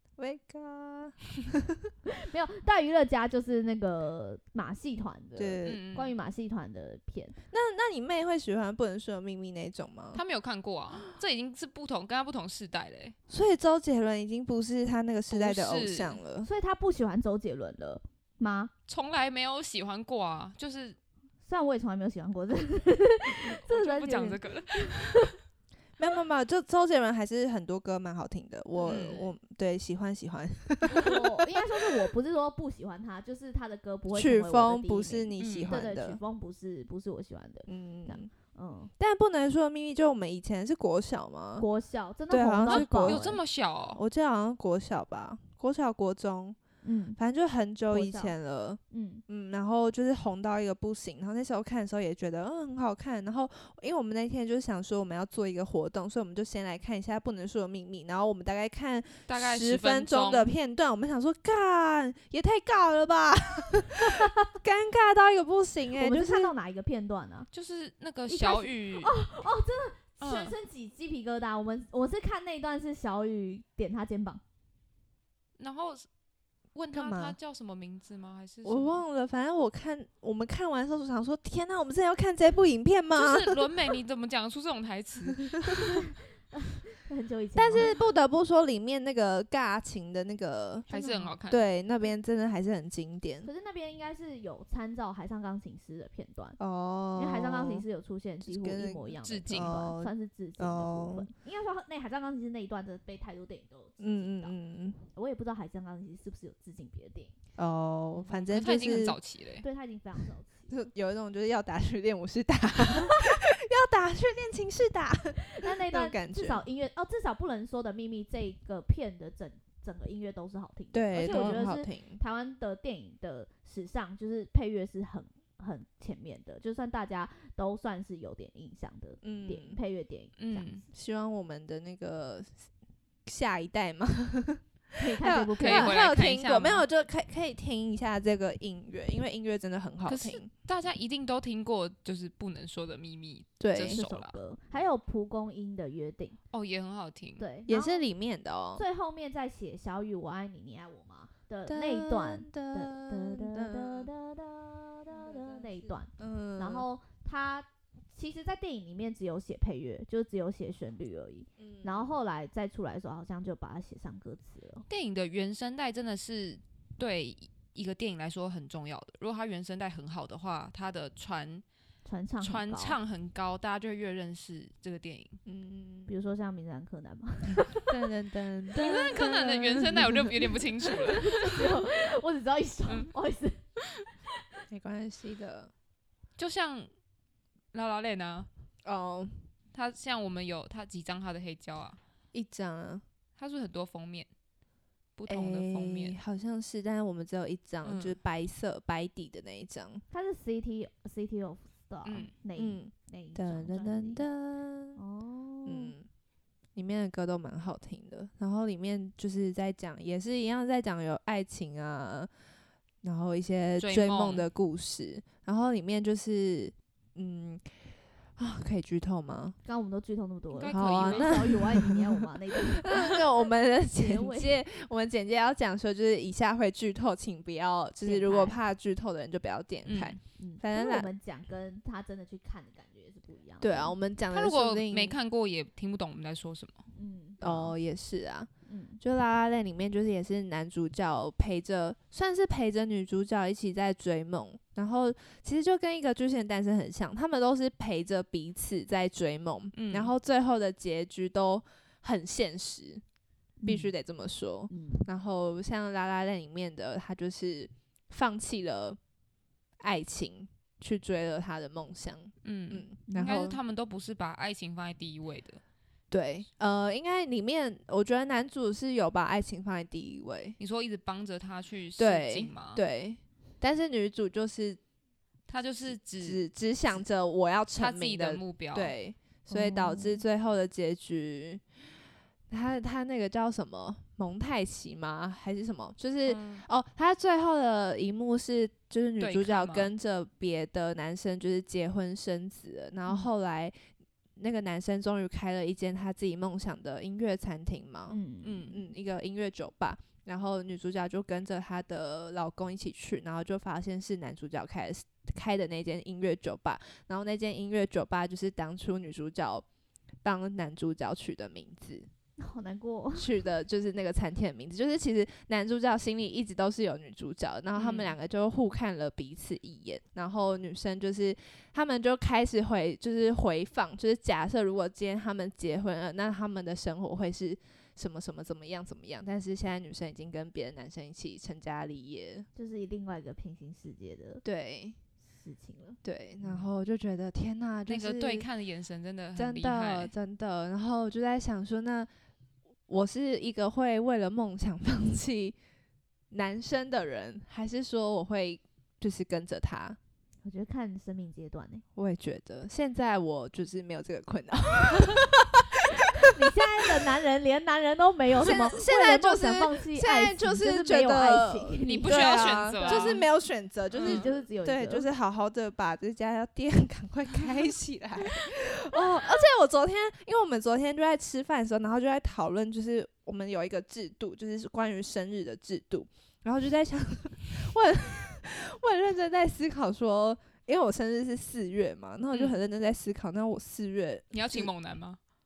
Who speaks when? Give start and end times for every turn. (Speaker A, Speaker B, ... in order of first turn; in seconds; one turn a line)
Speaker A: 0.2-1.9
Speaker B: 2.2-7.3
Speaker A: 5.3-5.8
Speaker C: 5.6-6.1
Speaker A: 7.5-10.2
Speaker C: 10.1-13.1
Speaker A: 13.3-16.5
Speaker C: 15.3-16.2
Speaker B: 16.4-18.7
Speaker C: 18.9-21.0
Speaker B: 21.4-25.3
Speaker C: 23.5-25.3
Speaker A: 26.0-32.1
Speaker C: 28.8-29.3
Speaker B: 30.9-38.9
Speaker A: 34.1-36.2
Speaker C: 35.4-35.8
Speaker A: 37.7-38.3
Speaker A: 39.0-41.6
Speaker B: 41.6-43.3
Speaker A: 42.3-43.4
Speaker C: 42.7-44.0
Speaker A: 43.9-46.6
Speaker B: 46.8-47.2
Speaker A: 47.2-66.5
Speaker B: 47.9-48.3
Speaker B: 48.9-49.2
Speaker C: 59.3-60.5
Speaker B: 66.0-67.5
Speaker C: 67.5-69.2
Speaker B: 68.3-74.4
Speaker C: 70.2-70.5
Speaker C: 75.6-76.1
Speaker C: 76.7-79.0
Speaker A: 76.9-77.3
Speaker A: 78.6-83.7
Speaker C: 83.1-85.5
Speaker A: 85.4-85.9
Speaker B: 85.7-87.9
Speaker A: 87.5-90.9
Speaker C: 90.9-91.6
Speaker B: 90.9-91.3
Speaker A: 91.5-93.5
Speaker B: 93.4-96.6
Speaker A: 96.6-97.8
Speaker B: 97.2-104.5
Speaker A: 98.4-101.3
Speaker C: 99.2-99.8
Speaker A: 104.0-105.0
Speaker B: 105.1-107.3
Speaker A: 107.6-109.2
Speaker C: 108.5-109.6
Speaker B: 109.6-110.7
Speaker A: 110.7-116.6
Speaker B: 112.9-113.2
Speaker B: 115.4-130.7
Speaker A: 120.9-122.2
Speaker C: 121.3-121.5
Speaker A: 129.2-129.8
Speaker C: 130.4-130.8
Speaker A: 130.9-132.7
Speaker A: 133.2-140.5
Speaker B: 135.0-136.0
Speaker C: 135.6-136.8
Speaker C: 140.1-144.3
Speaker A: 143.6-144.0
Speaker B: 143.9-146.4
Speaker C: 146.5-147.4
Speaker B: 147.4-148.0
Speaker A: 147.7-148.8
Speaker B: 148.8-164.9
Speaker A: 151.7-154.1
Speaker A: 155.1-156.8
Speaker A: 161.6-162.1
Speaker C: 164.9-171.6
Speaker B: 172.0-173.0
Speaker C: 172.4-175.4
Speaker A: 175.4-176.1
Speaker B: 176.1-177.9
Speaker A: 177.9-180.9
Speaker C: 178.7-181.6
Speaker B: 181.2-183.6
Speaker A: 184.7-185.7
Speaker C: 186.4-186.9
Speaker C: 187.7-188.5
Speaker A: 188.8-189.4
Speaker C: 189.7-192.0
Speaker A: 192.3-193.0
Speaker C: 193.4-194.3
Speaker C: 195.2-196.2
Speaker A: 195.3-200.0
Speaker C: 197.8-198.2
Speaker B: 200.1-204.2
Speaker C: 202.0-202.3
Speaker A: 202.6-205.0
Speaker B: 204.9-205.9
Speaker A: 205.7-206.1
Speaker A: 206.7-212.3
Speaker A: 213.0-217.7
Speaker C: 213.8-214.4
Speaker A: 218.4-219.6
Speaker B: 219.6-224.6
Speaker C: 220.5-221.7
Speaker A: 220.7-231.1
Speaker B: 228.0-228.6
Speaker C: 229.8-230.2
Speaker B: 230.4-233.9
Speaker A: 233.6-235.2
Speaker C: 234.3-236.8
Speaker B: 236.9-237.7
Speaker A: 237.4-238.5
Speaker B: 238.7-239.0
Speaker A: 239.0-253.0
Speaker C: 249.7-250.1
Speaker B: 253.6-253.9
Speaker A: 253.6-259.0
Speaker B: 254.7-255.1
Speaker A: 259.8-263.6
Speaker C: 262.4-265.6
Speaker B: 263.1-263.4
Speaker A: 266.1-270.6
Speaker C: 270.6-272.8
Speaker A: 272.0-274.8
Speaker C: 275.5-276.4
Speaker A: 275.9-281.6
Speaker C: 277.8-278.9
Speaker B: 279.5-280.2
Speaker A: 282.5-293.7
Speaker C: 286.2-286.6
Speaker C: 289.2-289.9
Speaker A: 294.4-298.2
Speaker B: 298.1-298.7
Speaker C: 298.4-298.8
Speaker A: 298.7-309.6
Speaker A: 310.2-312.1
Speaker B: 312.4-313.3
Speaker A: 313.1-332.4
Speaker C: 317.7-318.1
Speaker B: 332.6-334.4
Speaker A: 334.4-334.9
Speaker B: 335.4-336.0
Speaker A: 336.0-338.4
Speaker C: 337.9-340.1
Speaker A: 339.4-342.1
Speaker A: 342.9-345.6
Speaker A: 346.3-350.0
Speaker B: 350.4-351.8
Speaker A: 351.9-356.9
Speaker B: 356.1-363.2
Speaker A: 358.4-384.7
Speaker C: 361.8-363.2
Speaker C: 363.9-364.3
Speaker B: 364.0-365.1
Speaker C: 382.3-382.6
Speaker C: 384.3-385.2